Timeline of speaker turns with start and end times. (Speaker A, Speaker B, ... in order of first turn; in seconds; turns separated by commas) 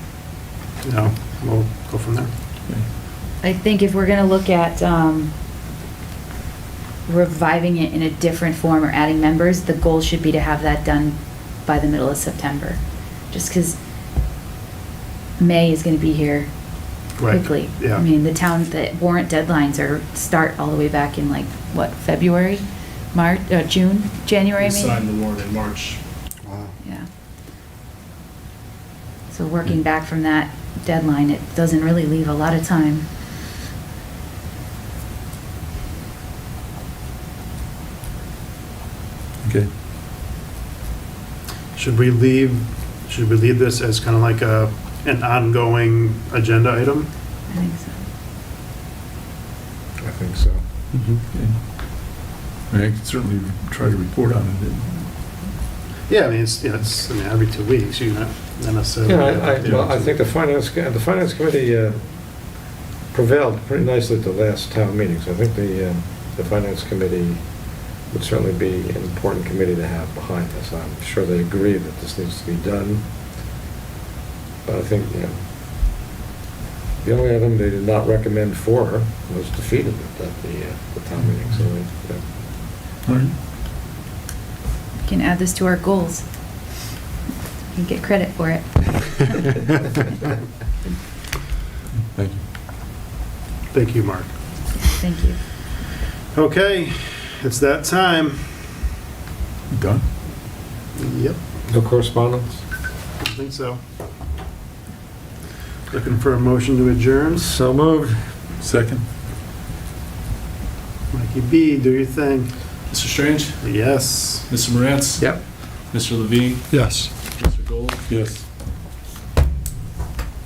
Speaker A: 0.8-2.3, Speaker B: 3.4-5.3, Speaker B: 7.1-13.8, Speaker B: 15.4-16.5, Speaker A: 17.2-18.0, Speaker B: 17.2-25.0, Speaker C: 24.6-26.0, Speaker A: 26.4-26.7, Speaker B: 29.3-33.0, Speaker D: 39.4-39.7, Speaker A: 41.8-47.1, Speaker B: 47.5-48.0, Speaker E: 50.0-50.6, Speaker A: 50.9-51.2, Speaker D: 51.3-55.1, Speaker A: 56.1-60.1, Speaker E: 59.0-62.5, Speaker E: 63.1-73.0, Speaker E: 74.6-75.4, Speaker E: 77.0-82.2, Speaker D: 83.0-83.3, Speaker B: 85.0-86.2, Speaker B: 87.7-89.5, Speaker D: 92.1-92.4, Speaker A: 93.7-94.3, Speaker B: 94.7-95.5, Speaker A: 96.3-98.8, Speaker D: 99.7-100.0, Speaker A: 101.0-101.4, Speaker E: 101.7-102.6, Speaker A: 103.2-103.8, Speaker A: 105.9-107.5, Speaker E: 107.3-108.3, Speaker D: 108.6-109.0, Speaker A: 111.1-112.6, Speaker C: 112.9-113.6, Speaker A: 113.6-114.5, Speaker C: 114.5-118.0, Speaker E: 115.2-115.4, Speaker A: 116.7-117.1, Speaker D: 118.1-118.4